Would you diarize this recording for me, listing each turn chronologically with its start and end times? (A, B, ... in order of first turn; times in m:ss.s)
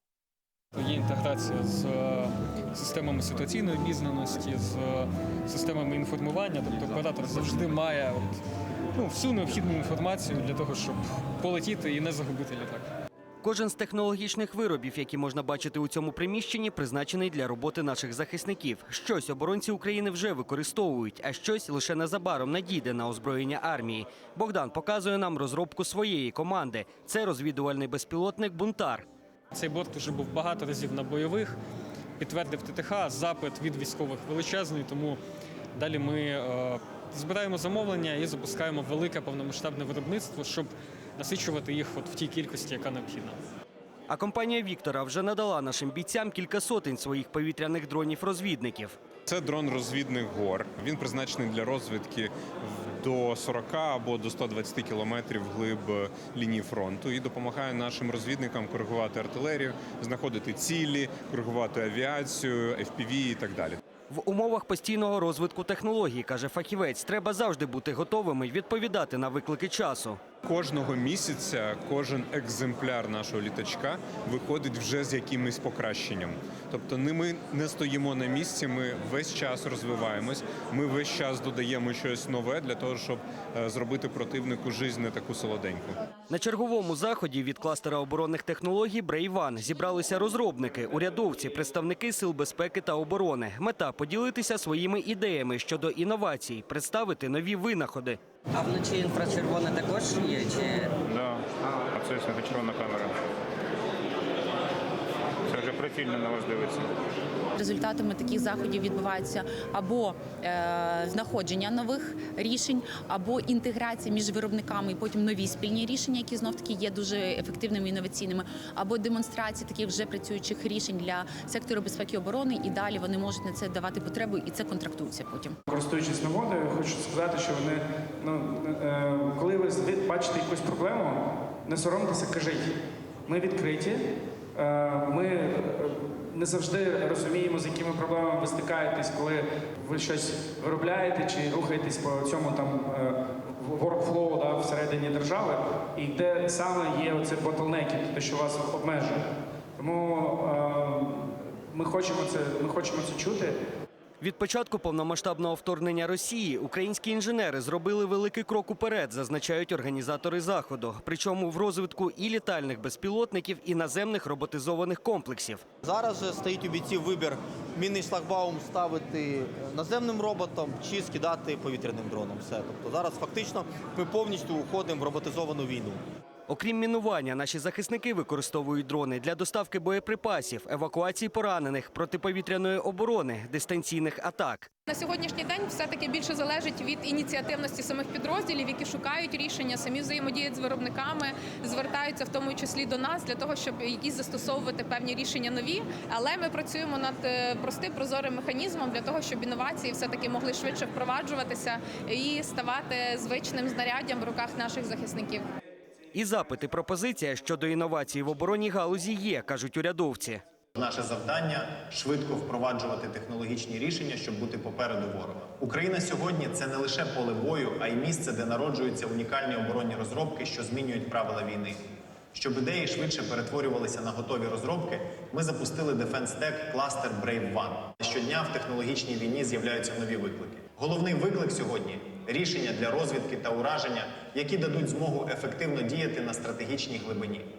0:00.7-0:08.4 A
0:08.9-0:12.9 A
0:13.4-0:29.0 B
0:29.5-0:31.5 A
0:32.2-0:35.2 A
0:35.8-0:43.4 A
0:44.1-0:49.0 B
0:49.3-1:03.8 C
1:04.1-1:10.2 B
1:10.4-1:26.0 C
1:26.3-1:38.2 B
1:38.5-1:40.9 D
1:41.0-1:43.1 E
1:45.5-1:46.9 E
1:47.6-2:05.6 F
2:05.7-2:12.7 G
2:13.3-2:14.0 G
2:14.6-2:29.2 G
2:29.8-2:33.6 G
2:34.2-2:45.6 B
2:45.8-2:56.0 H
2:56.5-3:04.7 B
3:04.9-3:25.5 I
3:26.1-3:30.4 B
3:30.8-3:41.8 J
3:42.3-3:57.5 J